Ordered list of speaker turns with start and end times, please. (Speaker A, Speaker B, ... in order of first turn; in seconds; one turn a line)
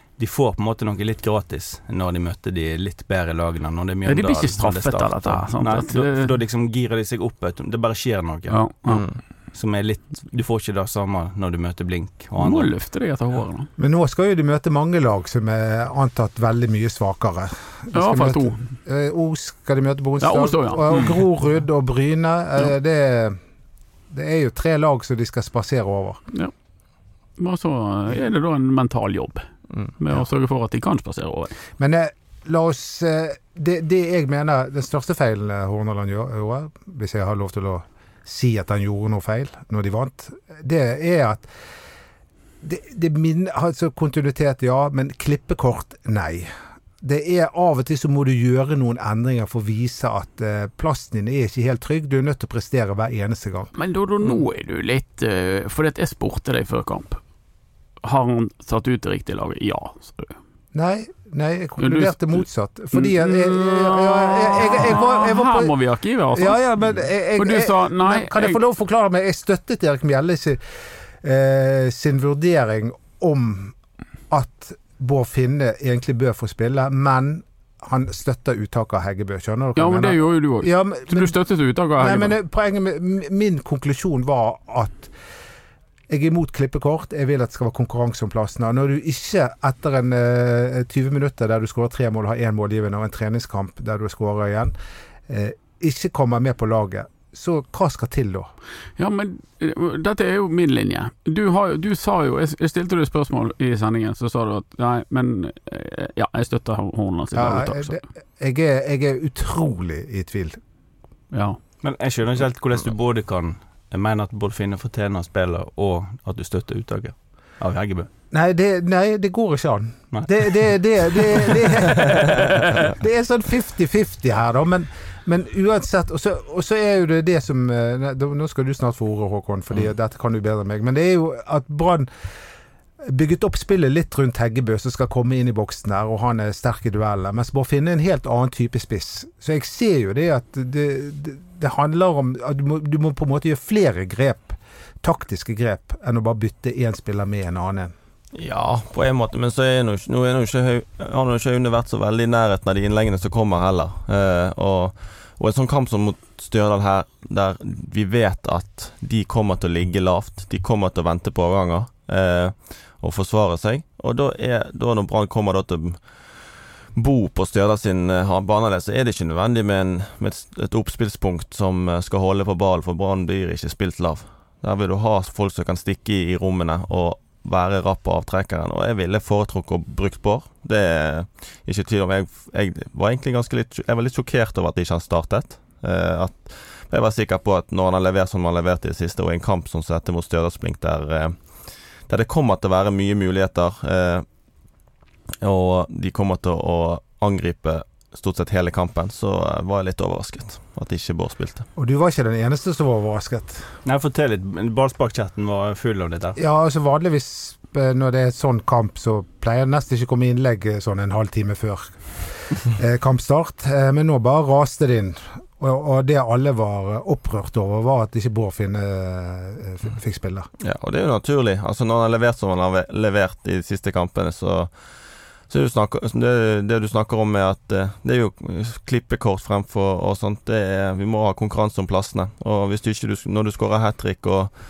Speaker A: 0.2-8.5
Speaker B: 4.0-6.3
Speaker B: 8.5-9.1
Speaker C: 8.9-9.2
Speaker A: 9.5-12.7
Speaker B: 12.4-13.7
Speaker D: 13.8-23.4
Speaker B: 17.9-18.6
Speaker B: 20.2-21.2
Speaker D: 24.1-26.2
Speaker B: 27.4-29.4
Speaker B: 30.0-31.5
Speaker D: 31.8-41.5
Speaker D: 42.6-53.7
Speaker B: 53.8-57.2
Speaker B: 58.0-60.4
Speaker D: 60.7-65.7
Speaker B: 61.8-68.6
Speaker D: 66.3-70.6
Speaker D: 71.2-73.8
Speaker D: 74.3-81.3
Speaker B: 79.8-82.3
Speaker D: 82.0-85.1
Speaker D: 86.1-94.7
Speaker D: 95.3-98.5
Speaker B: 99.0-108.0
Speaker D: 107.3-110.6
Speaker B: 111.3-111.6
Speaker A: 111.8-118.1
Speaker D: 118.3-132.1
Speaker A: 120.1-120.4
Speaker D: 133.0-147.9
Speaker C: 148.3-166.0
Speaker C: 166.9-191.4
Speaker C: 192.1-194.2
Speaker C: 195.4-201.7
Speaker D: 201.8-203.7
Speaker A: 203.8-206.4
Speaker D: 206.4-211.9
Speaker D: 212.5-220.5
Speaker C: 220.6-224.7
Speaker C: 225.5-234.5